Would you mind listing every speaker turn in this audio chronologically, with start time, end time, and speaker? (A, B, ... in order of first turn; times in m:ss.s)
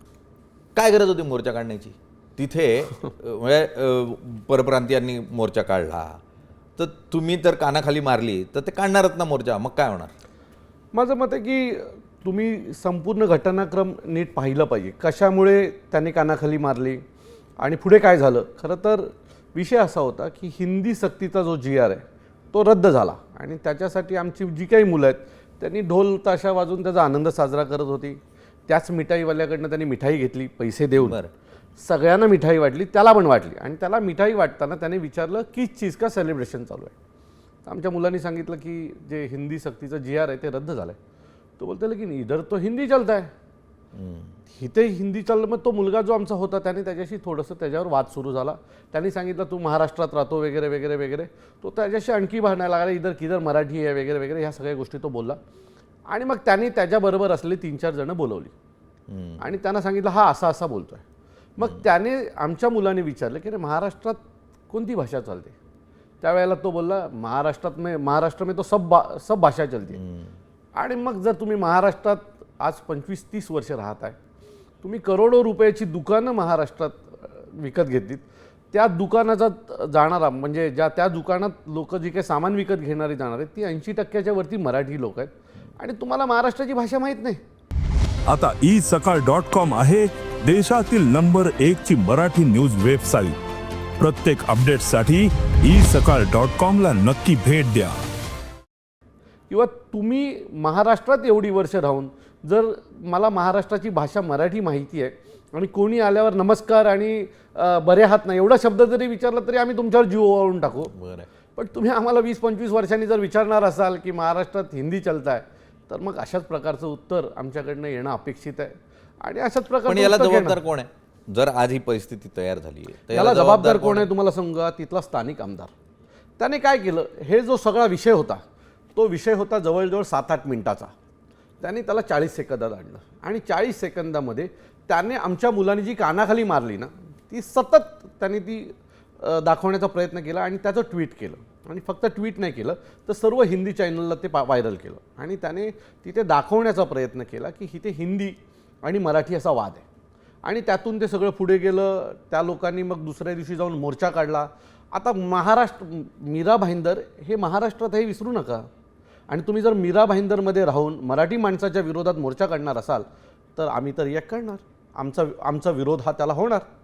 0:00.7-0:06.2 A
0:06.8-0:10.1 A
0:10.9-0:17.0 B
0:17.6-0:31.2 B
0:31.0-0:31.3 A
0:31.8-0:36.9 B
0:37.6-0:41.0 B
0:41.6-0:43.3 B
0:43.9-0:44.4 A
0:44.5-0:55.4 B
0:56.1-0:58.5 B
0:59.1-0:59.4 A
0:59.4-1:01.0 B
1:01.6-1:04.2 B
1:04.7-1:05.5 B
1:06.2-1:10.0 B
1:10.0-1:10.3 A
1:10.8-1:14.2 B
1:14.8-1:27.4 B
1:28.3-1:33.4 C
1:34.0-1:38.0 C
1:39.5-1:50.9 B
1:50.9-1:51.3 A
1:51.6-2:00.6 B
1:59.9-2:04.1 A
2:03.1-2:05.7 B
2:06.4-2:08.4 B
2:08.9-2:10.9 B
2:11.6-2:29.8 B
2:30.4-2:38.6 B
2:39.3-2:46.6 B